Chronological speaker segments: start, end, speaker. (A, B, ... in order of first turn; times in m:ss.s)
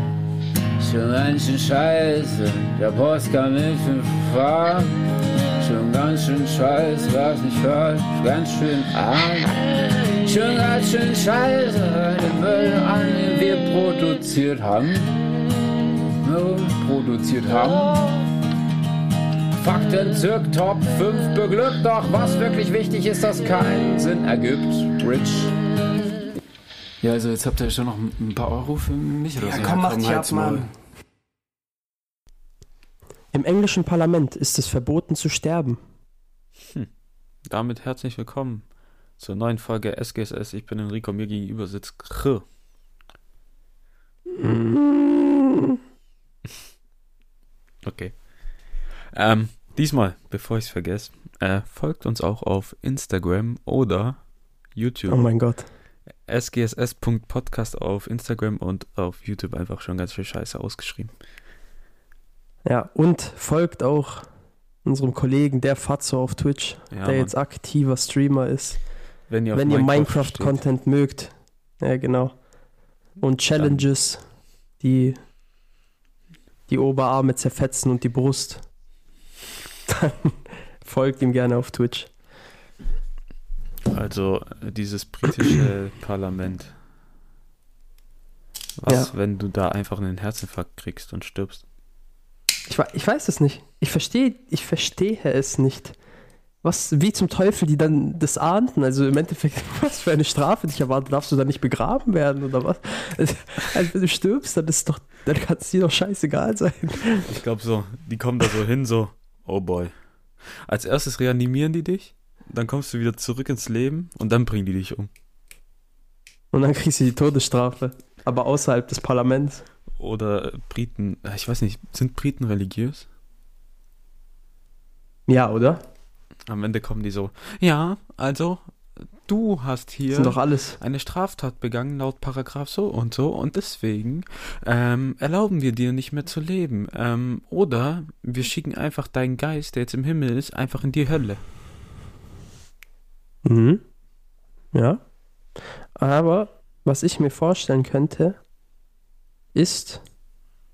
0:00.8-0:05.0 A
0:05.6-0:15.1 A
0:16.2-0:18.2 A
0:19.6-0:25.6 A
0:27.0-0:30.7 A
0:29.4-0:30.6 B
0:33.3-0:35.8 B
0:37.4-0:42.4 C
0:44.4-0:45.3 B
0:47.8-0:55.4 C
0:55.1-0:55.7 B
0:56.2-1:01.1 C
1:02.6-1:04.3 B
1:04.8-1:12.4 B
1:06.9-1:07.3 C
1:09.3-1:10.6 C
1:13.1-1:15.3 B
1:13.6-1:13.8 C
1:16.7-1:18.7 B
1:19.9-1:22.1 B
1:23.9-1:26.7 C
1:28.8-1:31.6 C
1:32.7-1:36.0 B
1:36.6-1:47.2 B
1:47.2-1:55.1 C
1:56.5-1:59.6 B
2:00.0-2:03.0 C
2:05.3-2:05.8 B
2:06.4-2:21.4 C
2:10.1-2:10.8 B
2:23.4-2:23.8 B
2:24.7-2:25.0 B
2:25.9-2:28.4 B
2:29.5-2:30.0 B